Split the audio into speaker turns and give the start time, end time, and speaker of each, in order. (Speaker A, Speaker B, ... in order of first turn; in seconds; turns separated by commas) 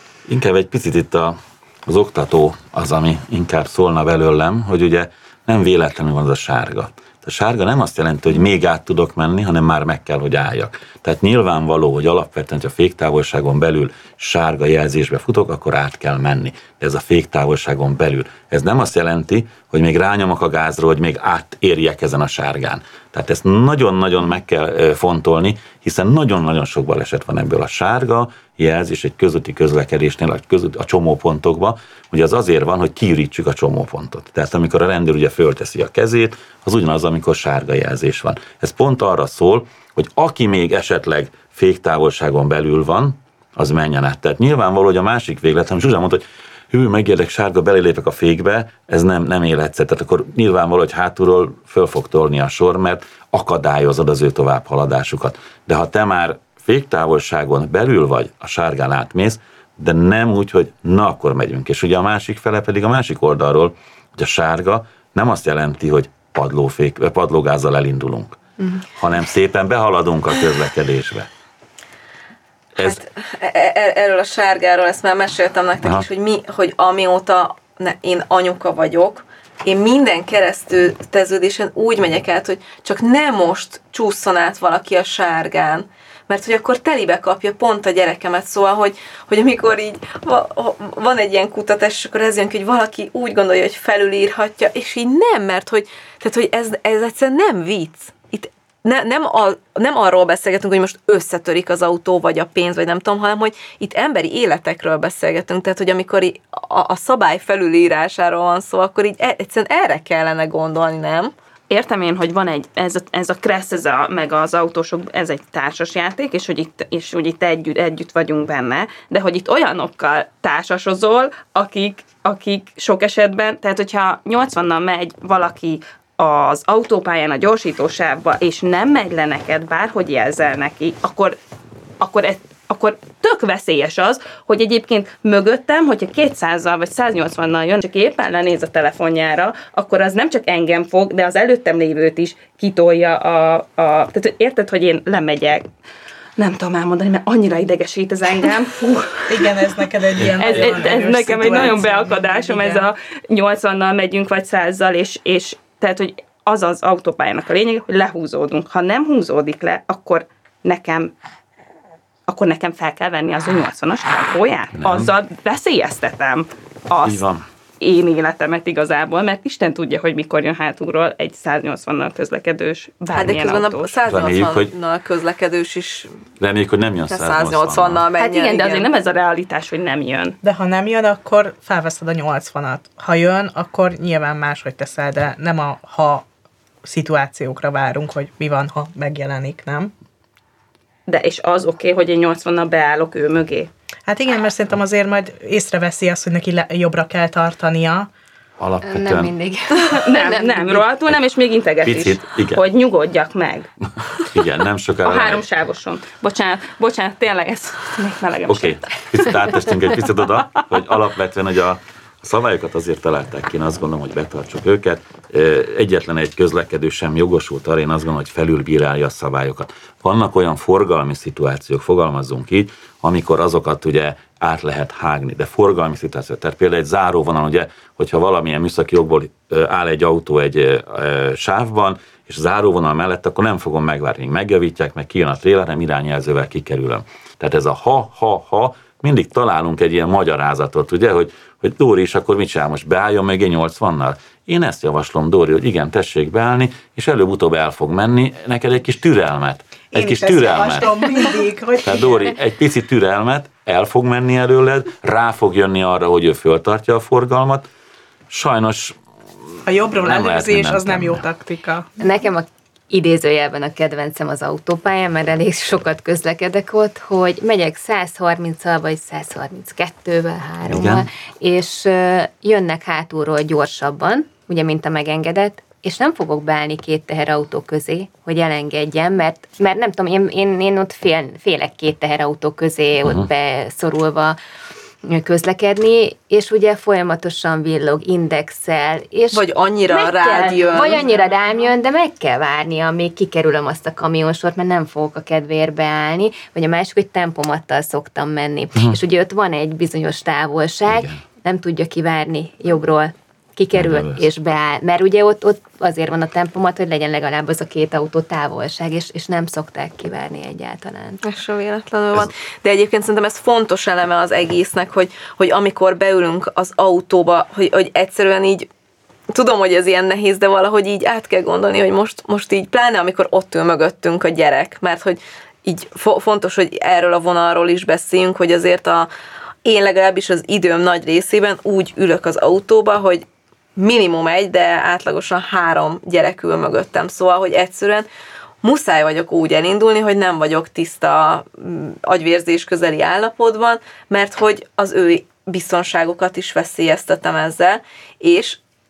Speaker A: 0.3-68.4, Speaker A: 69.0-71.3, Speaker A: 72.8-73.0, Speaker B: 72.8-111.3, Speaker C: 111.7-131.4, Speaker C: 132.0-145.7, Speaker C: 146.4-149.4, Speaker D: 149.3-152.9, Speaker C: 150.4-161.1, Speaker C: 162.3-167.2, Speaker A: 164.8-165.1, Speaker A: 167.0-167.4, Speaker C: 167.8-174.1, Speaker B: 173.1-176.2, Speaker A: 174.1-174.7, Speaker A: 176.4-178.0, Speaker B: 177.1-178.9, Speaker C: 178.2-180.4, Speaker D: 180.4-186.3, Speaker D: 186.8-189.9, Speaker C: 191.1-193.7, Speaker D: 194.1-198.1, Speaker A: 198.6-199.3, Speaker E: 198.8-200.9, Speaker C: 199.9-203.7, Speaker A: 201.8-202.6, Speaker A: 204.3-205.4, Speaker C: 205.0-209.0, Speaker A: 208.5-250.9, Speaker D: 249.9-252.2, Speaker A: 251.8-257.7, Speaker A: 258.3-259.0, Speaker D: 259.6-261.9, Speaker A: 260.0-261.2, Speaker E: 262.0-284.4, Speaker A: 270.6-271.1, Speaker E: 285.0-311.2, Speaker B: 289.3-291.0, Speaker A: 300.9-301.2, Speaker A: 303.7-304.3, Speaker B: 311.2-318.7, Speaker B: 319.3-329.1, Speaker B: 329.6-333.2, Speaker B: 333.8-338.1, Speaker B: 338.6-348.6